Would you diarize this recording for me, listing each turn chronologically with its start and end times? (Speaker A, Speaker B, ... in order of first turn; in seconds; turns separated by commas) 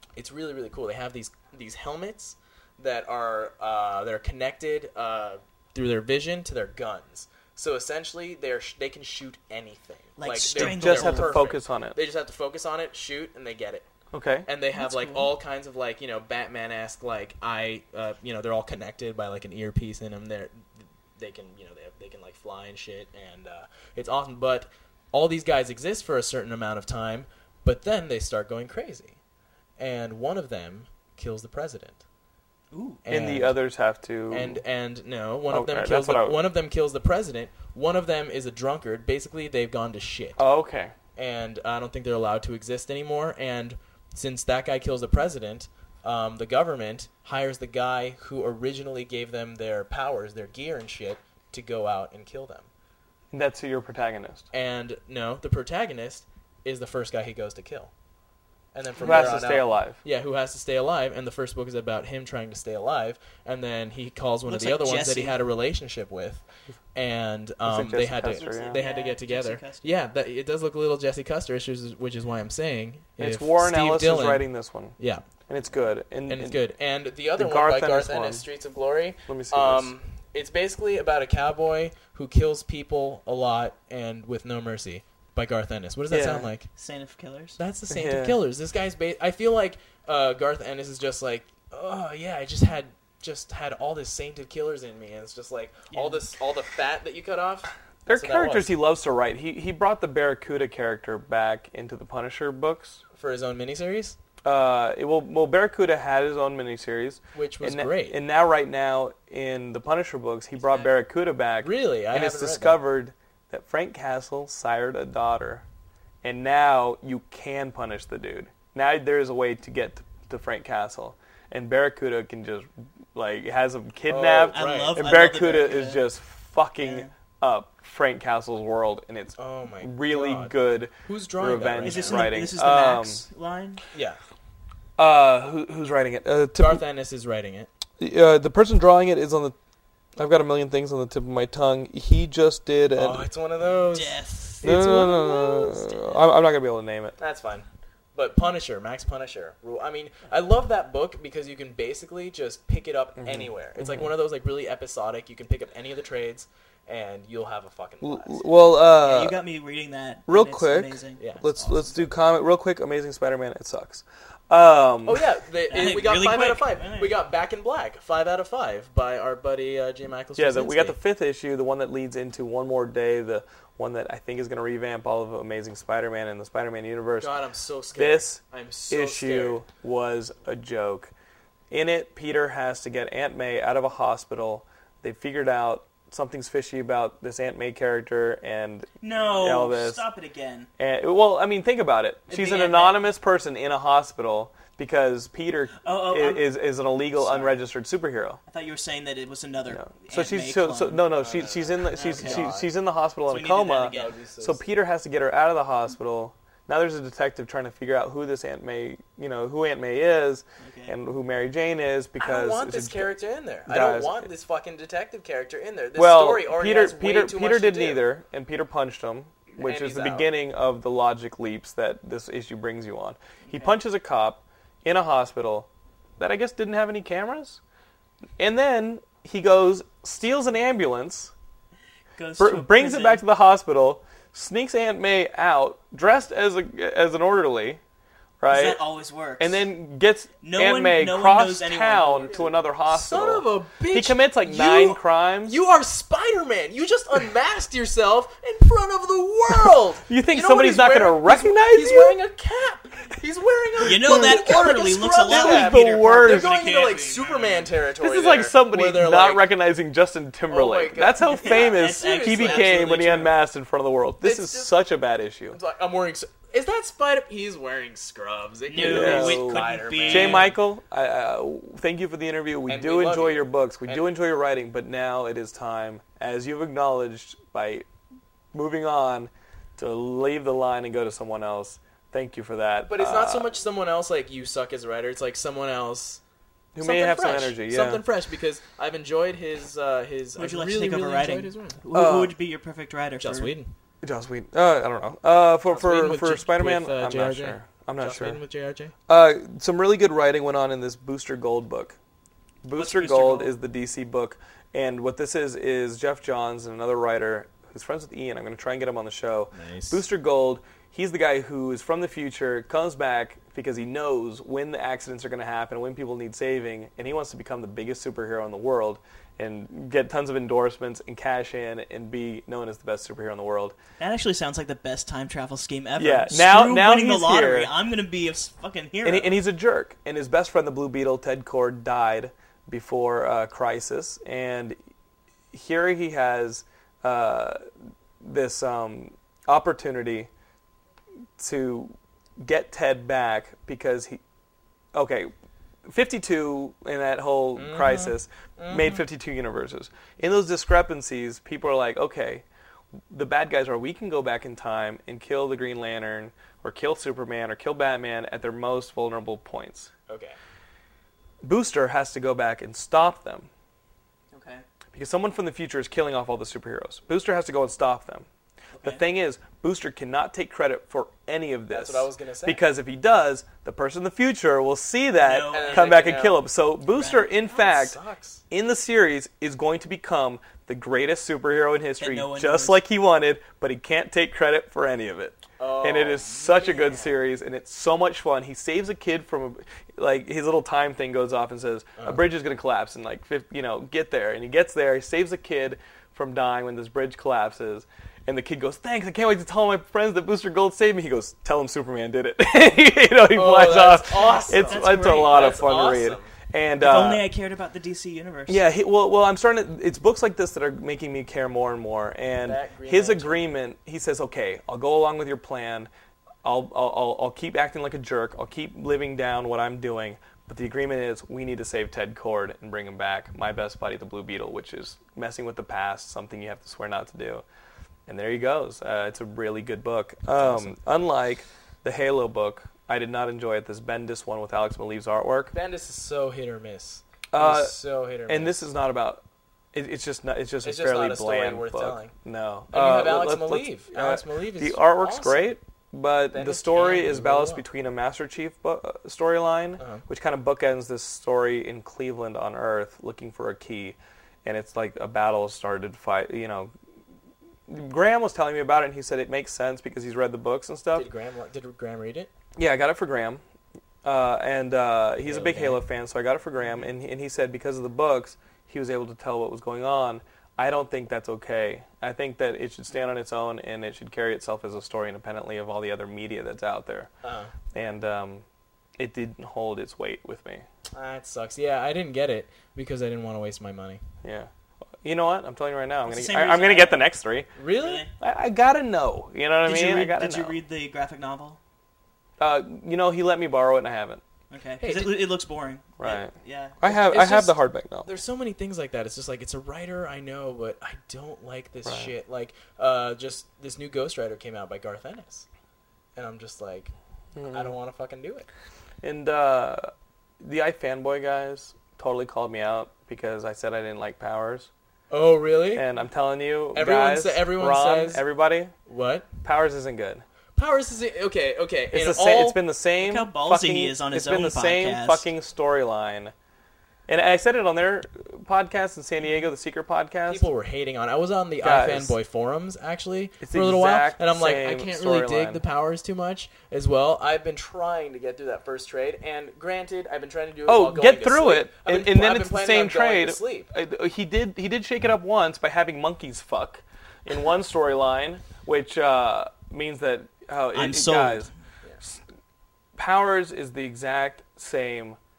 Speaker A: 0.1-13.9, Speaker B: 10.2-11.4, Speaker C: 10.5-11.9, Speaker C: 14.1-14.5, Speaker A: 14.4-29.2, Speaker B: 14.7-15.3, Speaker A: 29.8-32.0, Speaker B: 32.7-33.0, Speaker A: 33.0-33.6, Speaker C: 33.1-34.6, Speaker A: 34.3-40.4, Speaker C: 35.5-36.4, Speaker C: 40.4-40.9, Speaker A: 41.1-52.7, Speaker C: 53.3-54.5, Speaker A: 54.5-57.9, Speaker A: 58.7-66.4, Speaker B: 59.0-59.4, Speaker C: 59.0-60.0, Speaker B: 64.5-65.4, Speaker A: 66.9-75.2, Speaker C: 67.6-68.8, Speaker B: 68.4-69.9, Speaker C: 73.2-75.0, Speaker C: 75.5-76.6, Speaker A: 76.3-86.7, Speaker C: 77.4-78.4, Speaker C: 79.3-79.9, Speaker C: 86.1-86.5, Speaker B: 86.8-87.6, Speaker A: 87.6-98.7, Speaker C: 87.9-88.4, Speaker B: 95.9-96.2, Speaker C: 98.0-103.0, Speaker A: 103.1-104.2, Speaker C: 104.4-115.6, Speaker A: 107.3-108.2, Speaker A: 111.6-112.8, Speaker C: 116.2-133.2, Speaker A: 124.0-125.0, Speaker B: 124.5-126.0, Speaker B: 126.8-127.1, Speaker A: 129.4-132.3, Speaker B: 131.8-133.8, Speaker A: 133.9-134.2, Speaker C: 135.0-136.8, Speaker A: 136.6-137.7, Speaker C: 138.0-139.5, Speaker C: 140.2-143.2, Speaker A: 142.9-145.9, Speaker B: 143.9-145.9, Speaker C: 144.6-147.1, Speaker A: 147.2-158.4, Speaker C: 153.2-154.1, Speaker C: 158.0-159.4, Speaker B: 159.0-162.1, Speaker C: 160.3-165.2, Speaker A: 161.2-161.4, Speaker A: 165.1-170.9, Speaker B: 165.7-167.1, Speaker C: 170.3-177.3, Speaker A: 177.2-179.6, Speaker C: 177.9-181.1, Speaker C: 181.7-190.0, Speaker B: 189.0-190.7, Speaker C: 190.8-198.4, Speaker B: 192.3-193.0, Speaker B: 195.8-196.5, Speaker B: 197.1-197.6, Speaker B: 198.5-201.1, Speaker C: 199.7-213.1, Speaker A: 201.1-202.7, Speaker B: 201.9-202.5, Speaker B: 203.3-204.1, Speaker A: 203.8-204.6, Speaker B: 210.6-210.9, Speaker A: 212.2-218.1, Speaker C: 213.7-214.3, Speaker C: 215.9-227.6, Speaker A: 219.6-220.3, Speaker B: 223.5-223.7, Speaker C: 228.4-231.3, Speaker B: 232.2-233.2, Speaker C: 232.4-237.8, Speaker C: 238.4-238.8, Speaker B: 238.5-239.6, Speaker C: 239.4-245.6, Speaker B: 240.4-242.5, Speaker A: 242.2-259.5, Speaker C: 250.1-252.2, Speaker B: 253.8-257.7, Speaker C: 253.9-254.7, Speaker C: 255.2-256.6, Speaker C: 258.0-265.6, Speaker A: 260.5-263.3, Speaker B: 261.4-263.3, Speaker A: 264.2-264.7, Speaker A: 265.5-270.6, Speaker B: 268.7-270.5, Speaker C: 268.8-277.9, Speaker A: 272.7-274.0, Speaker C: 278.5-283.5, Speaker A: 282.9-286.2, Speaker C: 286.7-288.0, Speaker A: 286.8-291.8, Speaker B: 290.4-293.5, Speaker C: 291.9-292.3, Speaker A: 293.2-293.7, Speaker C: 294.0-298.4, Speaker A: 295.7-298.9, Speaker C: 299.1-302.0, Speaker C: 302.6-323.8, Speaker B: 302.7-303.5, Speaker A: 309.5-310.0, Speaker B: 324.0-329.4, Speaker C: 326.0-327.7, Speaker C: 329.0-334.8, Speaker C: 335.5-337.6, Speaker C: 338.2-340.3, Speaker C: 341.4-344.2, Speaker C: 344.9-345.3, Speaker C: 345.9-352.4, Speaker A: 347.5-349.0, Speaker C: 353.1-359.9, Speaker A: 360.1-360.4, Speaker C: 361.4-363.5, Speaker B: 364.3-364.6, Speaker C: 364.9-368.2, Speaker B: 368.7-369.0, Speaker C: 368.8-378.0, Speaker A: 371.7-372.6, Speaker B: 375.2-375.9, Speaker A: 375.5-376.4, Speaker B: 376.9-377.3, Speaker A: 377.5-378.4, Speaker C: 378.5-407.2, Speaker B: 382.0-382.8, Speaker A: 385.6-386.6, Speaker B: 386.5-387.1, Speaker A: 392.0-392.2, Speaker A: 403.3-406.3, Speaker B: 404.5-405.6, Speaker B: 406.8-408.6, Speaker C: 408.5-415.9, Speaker A: 412.4-413.5, Speaker C: 416.4-427.4, Speaker C: 428.1-435.5, Speaker A: 430.4-430.7, Speaker A: 435.5-438.6, Speaker C: 437.3-437.7, Speaker C: 438.3-439.2, Speaker C: 439.7-456.7, Speaker A: 440.6-442.1, Speaker A: 442.7-445.6, Speaker A: 446.3-447.6, Speaker A: 449.8-450.0, Speaker C: 457.7-461.1, Speaker A: 460.9-462.3, Speaker C: 462.6-463.4, Speaker C: 464.0-477.1, Speaker A: 465.2-465.8, Speaker A: 477.2-477.5, Speaker C: 477.7-478.4, Speaker C: 479.0-480.6, Speaker A: 480.9-484.0, Speaker C: 484.2-484.5, Speaker C: 485.0-487.5, Speaker B: 486.1-487.1, Speaker A: 487.6-488.1, Speaker B: 487.8-488.1, Speaker C: 488.2-490.6, Speaker B: 489.6-491.6, Speaker C: 492.4-494.2, Speaker B: 494.5-496.8, Speaker A: 494.8-495.3, Speaker C: 496.0-496.3, Speaker C: 496.8-498.1, Speaker A: 496.9-505.4, Speaker C: 501.8-502.1, Speaker A: 506.1-506.9, Speaker C: 507.4-507.7, Speaker A: 507.4-508.5, Speaker C: 509.0-509.9, Speaker C: 510.4-514.7, Speaker A: 515.1-515.9, Speaker C: 515.7-518.7, Speaker A: 516.7-518.2, Speaker A: 518.9-519.3, Speaker C: 519.4-520.2, Speaker A: 520.5-522.6, Speaker C: 521.9-526.3, Speaker B: 523.0-525.3, Speaker C: 527.1-530.5, Speaker A: 530.3-543.7, Speaker C: 531.6-532.2, Speaker C: 533.4-535.6, Speaker C: 540.7-551.5, Speaker B: 550.7-551.5, Speaker C: 553.0-555.2